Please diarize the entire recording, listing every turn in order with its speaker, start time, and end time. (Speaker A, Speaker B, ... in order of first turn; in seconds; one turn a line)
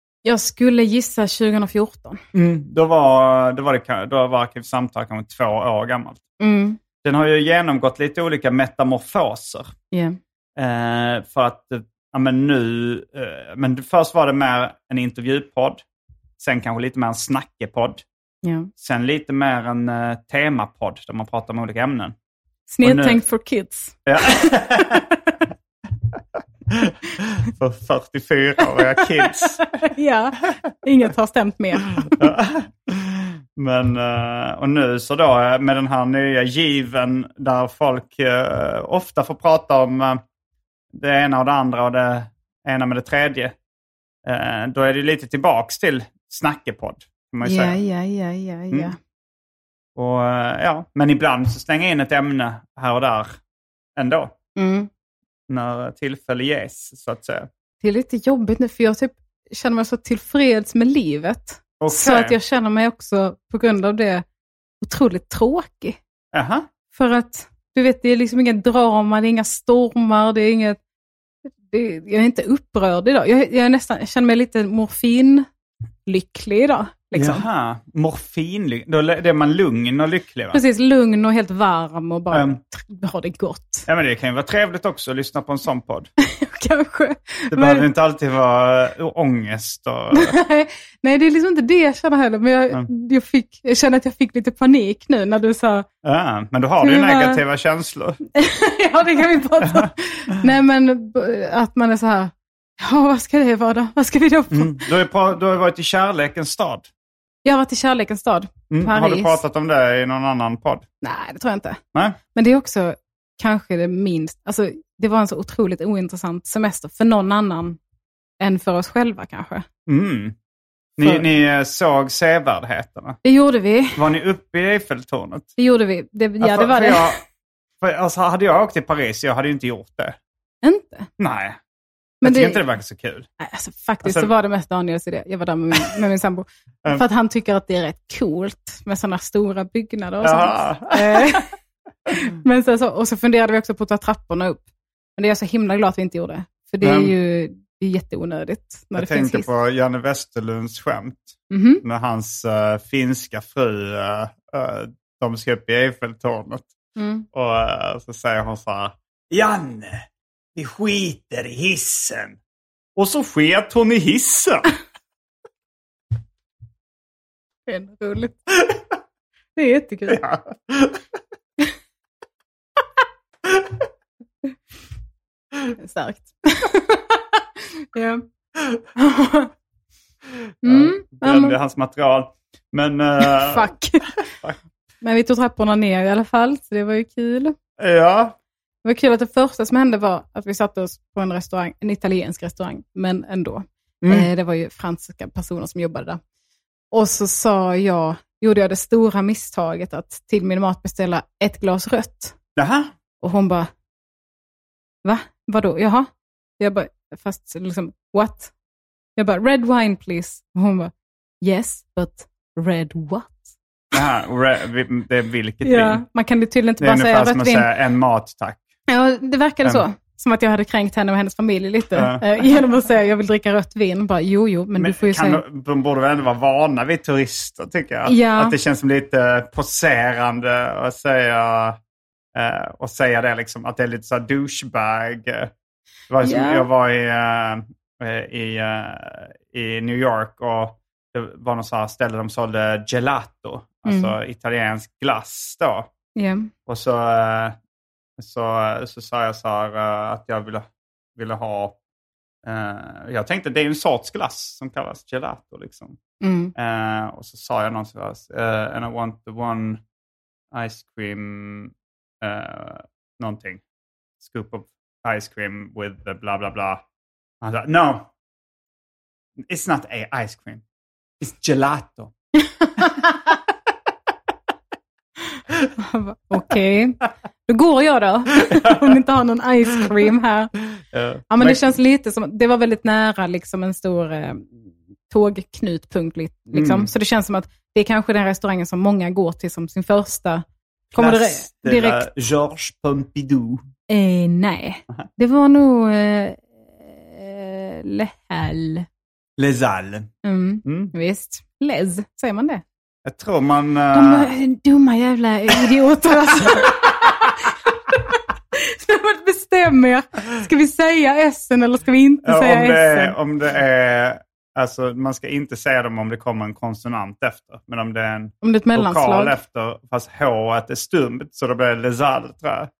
Speaker A: 0.2-2.2
Speaker B: 2.3-6.2
Speaker A: 6.4-6.8
Speaker B: 7.0-9.7
Speaker A: 9.9-10.2
Speaker B: 10.6-15.8
Speaker B: 16.4-18.0
Speaker A: 18.4-18.7
Speaker B: 18.8-22.1
Speaker A: 22.7-25.2
Speaker B: 22.8-23.2
Speaker B: 24.1-25.0
Speaker B: 26.7-29.6
Speaker A: 28.8-32.2
Speaker B: 32.0-40.2
Speaker B: 40.9-43.5
Speaker B: 44.2-47.8
Speaker A: 47.4-49.0
Speaker B: 50.0-53.4
Speaker B: 54.0-54.3
Speaker A: 54.5-54.9
Speaker B: 55.5-57.5
Speaker A: 57.8-64.2
Speaker B: 61.8-62.4
Speaker A: 64.8-66.0
Speaker B: 66.3-66.7
Speaker A: 66.9-70.8
Speaker A: 71.6-75.5
Speaker A: 76.0-77.4
Speaker B: 77.1-80.6
Speaker A: 80.5-83.9
Speaker B: 82.3-82.6
Speaker B: 83.9-86.1
Speaker A: 86.2-87.9
Speaker B: 87.5-90.4
Speaker A: 90.1-95.8
Speaker B: 96.0-98.2
Speaker A: 96.8-97.4
Speaker A: 98.3-104.9
Speaker B: 99.6-99.9
Speaker B: 104.5-106.9
Speaker A: 107.4-109.4
Speaker B: 108.7-110.8
Speaker A: 111.0-111.8
Speaker A: 112.3-117.8
Speaker A: 118.4-119.7
Speaker B: 119.9-120.3
Speaker B: 121.0-123.2
Speaker A: 123.2-124.0
Speaker B: 123.9-125.5
Speaker A: 125.6-127.2
Speaker B: 126.4-127.2
Speaker B: 127.8-130.2
Speaker A: 130.6-131.1
Speaker B: 131.2-131.6
Speaker B: 132.2-133.3
Speaker A: 132.2-132.6
Speaker A: 133.4-141.5
Speaker B: 134.0-134.3
Speaker B: 140.2-141.4
Speaker A: 142.1-144.6
Speaker A: 145.2-149.5
Speaker B: 146.8-147.1
Speaker B: 148.9-156.7
Speaker A: 151.5-151.8
Speaker A: 156.9-157.2
Speaker B: 157.3-162.4
Speaker B: 162.9-164.7
Speaker A: 167.7-168.4
Speaker A: 169.6-170.2
Speaker B: 170.1-171.0
Speaker A: 175.7-177.4
Speaker A: 177.9-178.2
Speaker A: 178.9-179.5
Speaker A: 180.6-181.6
Speaker B: 180.6-183.7
Speaker A: 183.2-184.2
Speaker A: 185.0-187.5
Speaker B: 187.8-188.4
Speaker A: 188.8-196.2
Speaker B: 194.0-194.3
Speaker A: 196.9-202.3
Speaker B: 202.6-202.9
Speaker A: 203.2-203.7
Speaker A: 205.0-206.1
Speaker A: 206.6-208.5
Speaker A: 209.2-213.5
Speaker B: 213.9-216.0
Speaker A: 215.6-217.7
Speaker B: 216.8-218.6
Speaker A: 218.9-225.4
Speaker B: 221.9-222.2
Speaker B: 224.8-231.8
Speaker A: 228.0-228.6
Speaker B: 232.3-235.5
Speaker B: 236.1-245.9
Speaker A: 236.2-236.7
Speaker A: 243.8-244.1
Speaker A: 246.2-246.5
Speaker B: 246.7-247.6
Speaker B: 248.2-251.8
Speaker B: 252.4-256.0
Speaker A: 256.2-256.5
Speaker B: 256.6-259.8
Speaker B: 260.5-263.6
Speaker B: 264.2-266.8
Speaker B: 267.4-268.1
Speaker B: 269.4-270.6
Speaker B: 271.2-272.1
Speaker A: 275.8-280.5
Speaker B: 278.5-278.7
Speaker B: 280.9-281.7
Speaker A: 281.3-292.1
Speaker B: 286.5-286.9
Speaker B: 290.9-293.6
Speaker A: 293.9-298.9
Speaker B: 299.4-300.1
Speaker A: 300.2-302.6
Speaker B: 300.6-300.9
Speaker B: 303.0-304.3
Speaker A: 303.9-313.2
Speaker B: 306.4-307.1
Speaker B: 312.2-322.7
Speaker A: 318.4-319.4